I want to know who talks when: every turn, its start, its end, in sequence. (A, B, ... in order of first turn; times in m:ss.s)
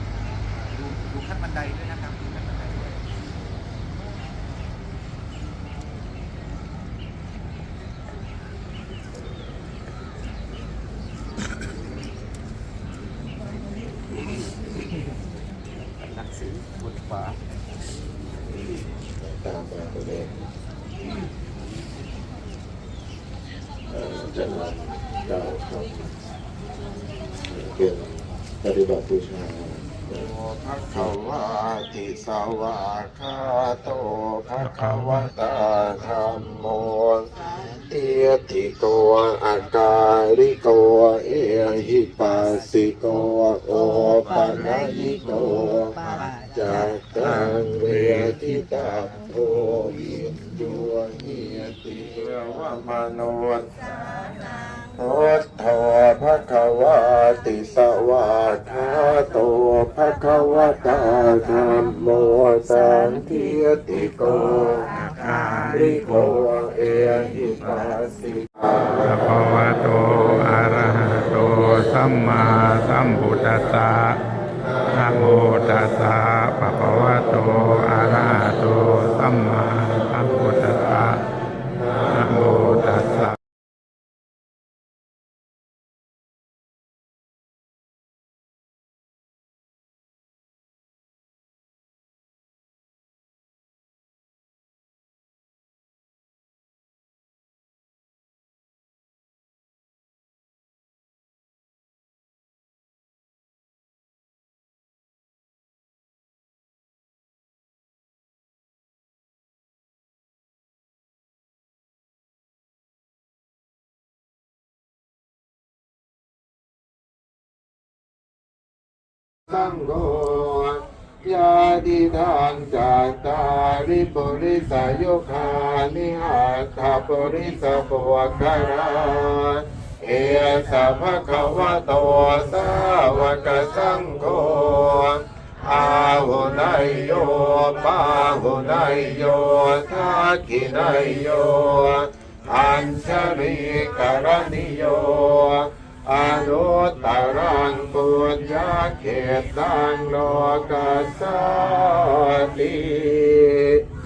0:00.8-0:03.0 A
0:16.1-0:17.3 A
0:18.5-0:20.3 B
0:23.9-0:26.0 B
0:27.4-1:10.8 B
1:05.2-1:05.7 C
1:09.1-1:14.2 C
1:13.0-1:13.3 B
1:14.5-1:16.0 B
1:15.0-1:21.2 C
1:16.8-1:17.8 B
1:18.6-1:18.9 B
1:20.1-1:21.0 B
1:21.6-1:23.2 B
1:22.2-1:23.3 C
1:59.5-2:33.8 B